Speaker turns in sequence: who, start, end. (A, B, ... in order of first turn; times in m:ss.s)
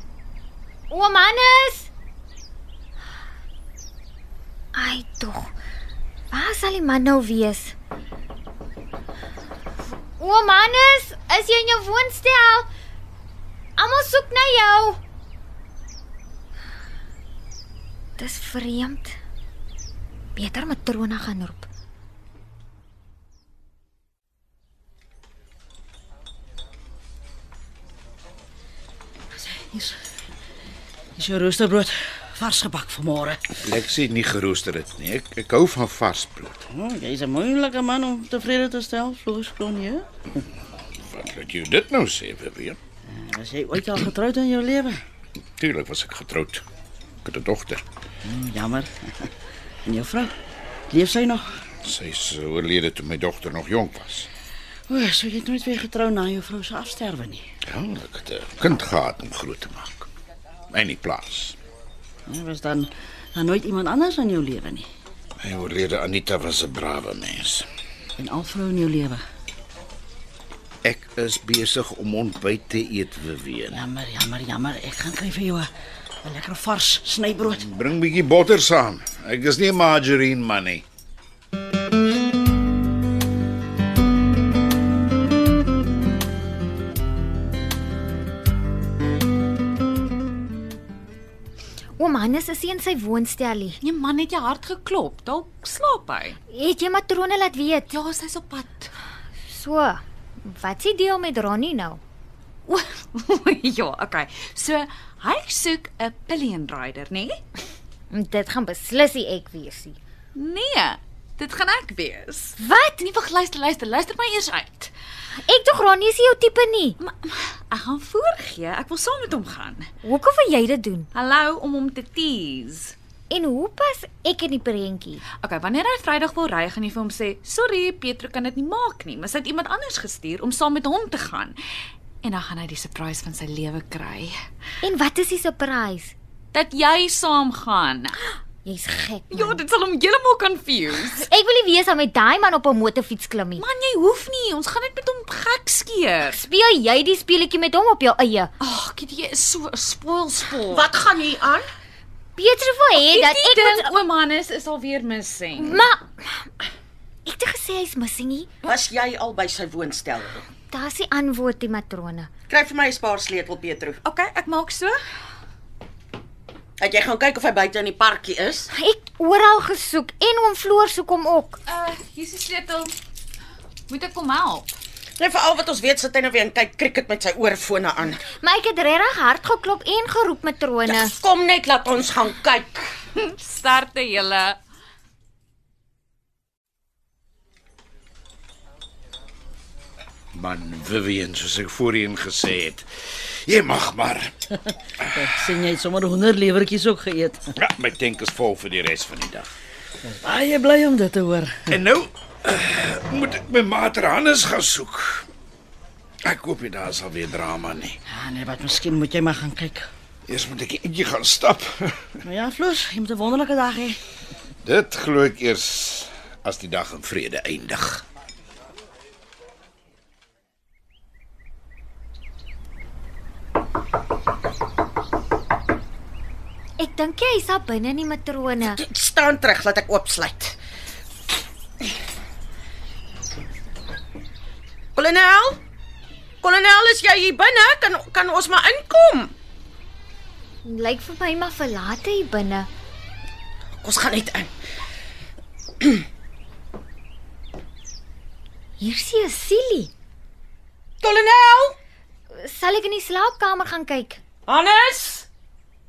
0:00.9-0:01.9 A
0:04.7-0:05.6 A
0:06.3-0:07.7 A
0:10.2-0:12.7 A
0:13.8-0:15.0 A
0:18.2-0:19.2 A
0:20.4-0:21.6 A
0:29.3-0:30.0 B
0:31.2-0:33.5 B
0:33.6-0:36.6 C
0:36.7-0:40.2 B
0:41.1-0:42.8 C
0:43.1-0:45.0 B
0:45.6-0:46.6 C
0:47.2-0:47.8 C
0:48.2-0:49.3 B
0:49.8-0:50.3 B
0:50.9-0:51.6 B
0:51.8-0:54.3 C
0:54.9-0:57.5 B
0:57.6-1:00.1 C
1:00.7-1:01.6 C
1:02.3-1:04.9 B
1:05.4-1:07.7 C
1:08.2-1:09.2 B
1:10.8-1:13.8 C
1:13.7-1:15.7 B
1:16.2-1:17.6 B
1:17.5-1:20.8 C
1:32.0-1:33.8 A
1:33.8-1:36.4 D
1:36.5-1:37.9 A
1:37.9-1:38.9 D
1:39.4-1:42.0 A
1:42.7-1:47.4 D
1:48.1-1:50.0 A
1:50.3-1:54.9 D
1:52.6-1:53.1 A
1:55.4-1:57.0 A
1:57.0-1:59.9 D
2:00.0-2:01.1 A
2:01.1-2:02.9 D
2:03.3-2:05.2 A
2:05.4-2:11.6 D
2:12.2-2:14.3 D
2:14.8-2:16.1 A
2:16.5-2:18.2 D
2:18.6-2:19.6 A
2:19.3-2:21.3 D
2:21.2-2:23.6 A
2:23.6-2:26.4 D
2:26.3-2:28.5 A
2:28.6-2:30.9 D
2:30.7-2:31.7 E
2:32.4-2:33.9 A
2:32.9-2:35.8 D
2:35.6-2:36.5 A
2:37.2-2:38.5 A
2:38.6-2:40.4 E
2:40.7-2:42.3 A
2:42.5-2:44.0 E
2:44.0-2:45.0 D
2:46.8-2:48.7 E
2:48.7-2:51.6 A
2:51.7-2:52.9 D
2:53.9-2:54.8 D
2:55.2-2:58.2 E
2:58.4-3:01.1 A
3:00.8-3:02.9 E
3:03.2-3:04.6 D
3:10.3-3:14.3 C
3:15.1-3:17.5 B
3:17.6-3:19.5 C
3:20.0-3:21.7 B
3:21.7-3:25.3 C
3:26.2-3:28.0 C
3:28.1-3:29.9 B
3:30.3-3:32.2 C
3:32.2-3:34.0 B
3:34.6-3:38.0 C
3:46.8-3:48.8 A
3:48.6-3:50.6 E
3:55.0-3:55.6 E
3:56.4-3:59.3 E
4:00.6-4:02.7 A
4:03.8-4:04.5 E
4:08.8-4:09.9 A
4:11.0-4:11.8 E
4:12.3-4:14.2 A
4:14.5-4:15.3 E